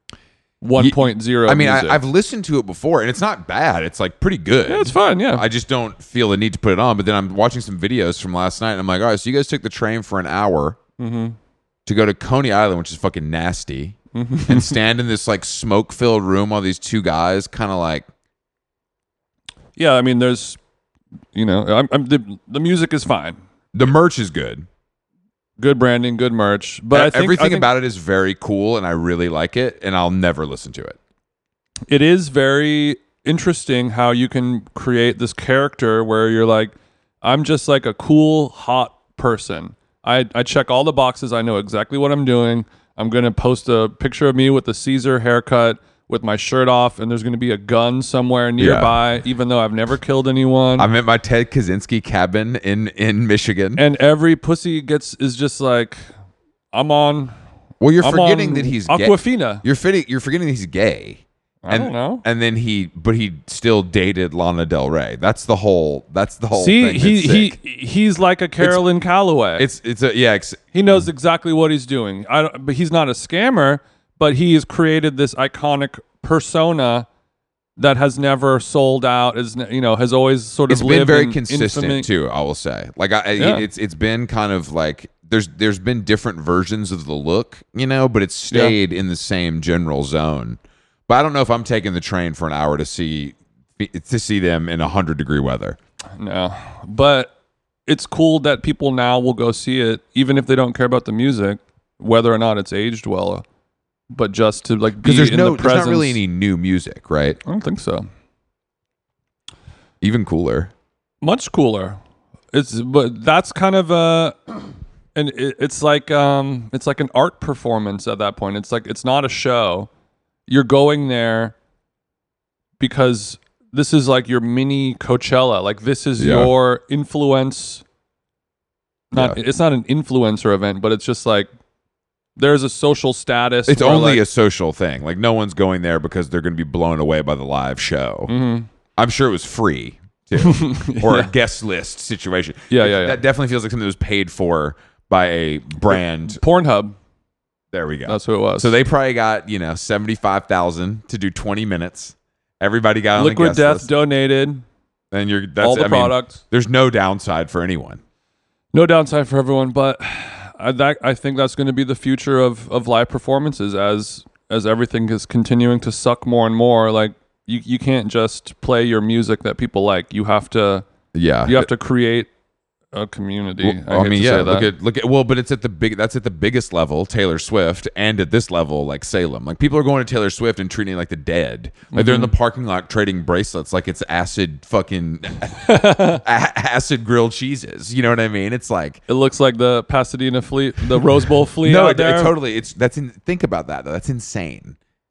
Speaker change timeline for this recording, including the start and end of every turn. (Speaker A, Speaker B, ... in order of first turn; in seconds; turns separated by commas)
Speaker A: 0.6-2.0, Speaker B: 0.8-10.8, Speaker A: 4.7-5.4, Speaker A: 11.0-11.4, Speaker B: 11.8-18.1, Speaker A: 14.1-14.8, Speaker A: 19.8-20.6, Speaker A: 21.3-23.4, Speaker B: 23.7-24.7, Speaker A: 25.6-27.7, Speaker B: 26.9-31.0, Speaker A: 31.9-50.9, Speaker B: 48.6-49.0, Speaker B: 50.8-53.8, Speaker A: 53.8-56.0, Speaker A: 56.7-57.3, Speaker B: 57.8-67.5, Speaker A: 58.0-59.6, Speaker A: 61.6-62.2, Speaker A: 66.5-69.7, Speaker B: 69.6-71.0, Speaker A: 70.7-77.1, Speaker A: 77.8-82.1, Speaker B: 80.7-95.8, Speaker A: 83.4-83.6, Speaker A: 88.5-88.8, Speaker A: 96.2-97.3, Speaker A: 97.8-103.4, Speaker A: 104.1-106.2, Speaker B: 105.0-107.4, Speaker A: 107.4-108.1, Speaker B: 110.0-110.7, Speaker A: 111.2-112.0, Speaker A: 112.5-114.4, Speaker A: 115.1-119.9, Speaker A: 120.5-121.5, Speaker A: 122.8-127.8, Speaker B: 126.2-126.5, Speaker B: 129.1-129.4, Speaker A: 129.1-131.5, Speaker A: 132.4-134.2, Speaker B: 133.7-138.3, Speaker A: 138.3-138.7, Speaker B: 139.0-146.4, Speaker A: 140.4-141.3, Speaker A: 142.7-143.2, Speaker A: 145.9-146.9, Speaker B: 147.7-153.9, Speaker A: 148.1-148.8, Speaker A: 153.2-154.6, Speaker B: 155.1-158.0, Speaker A: 155.6-156.4, Speaker A: 158.7-170.8, Speaker B: 171.1-171.7, Speaker A: 171.4-172.3, Speaker A: 172.9-174.7, Speaker B: 173.6-189.0, Speaker A: 181.9-182.3, Speaker A: 185.6-186.2, Speaker A: 189.1-192.3, Speaker B: 191.6-194.8